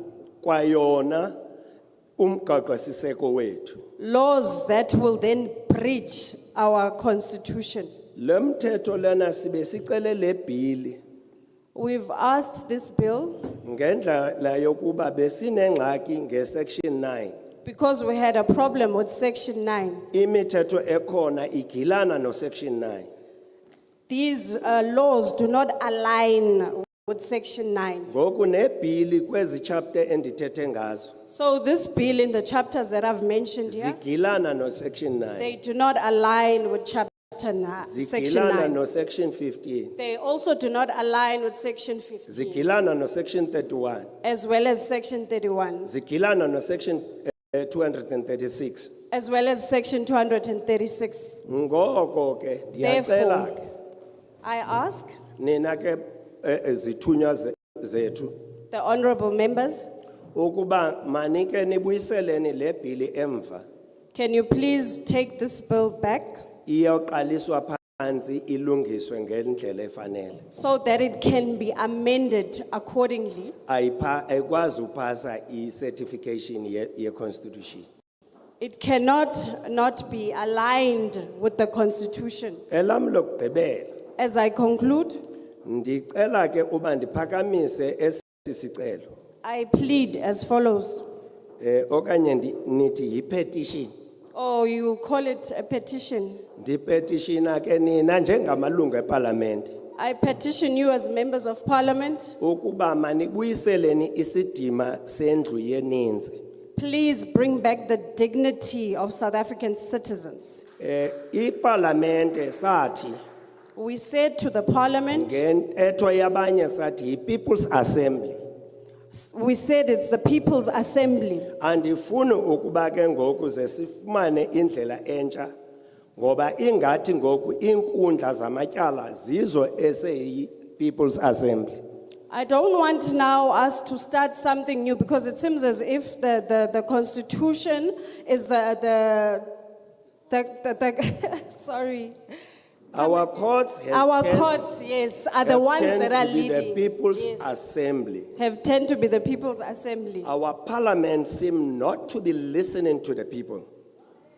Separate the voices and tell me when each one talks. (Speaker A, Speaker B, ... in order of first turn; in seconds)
Speaker A: 0.4-1.4, 2.2-3.8, 8.2-11.0, 13.6-17.4, 20.1-23.1, 28.1-31.1, 33.7-35.5, 37.8-39.9, 42.3-44.1, 45.9-48.9, 51.5-53.6, 55.4-58.4, 60.4-63.6, 66.7-70.5, 73.7-77.9, 82.7-83.9, 85.6-89.1, 91.6-93.9, 96.6-99.7, 102.4-106.4, 110.8-113.2, 115.1-118.4, 121.6-125.5, 126.2-131.8, 142.9-144.6, 145.4-148.3, 150.2-153.7
Speaker B: 4.0-7.9, 11.7-13.5, 17.6-20.1, 24.1-28.1, 31.3-34.0, 35.4-38.8, 40.0-42.6, 44.2-45.9, 49.1-51.4, 52.8-53.6, 54.4-55.2, 58.7-59.9, 64.1-66.4, 70.5-73.5, 78.6-82.6, 84.2-85.2, 89.4-91.0, 94.3-96.4, 100.0-102.3, 106.8-110.6, 113.8-115.4, 119.1-121.5, 132.3-139.5, 140.3-142.2, 143.9-147.6, 148.4-150.3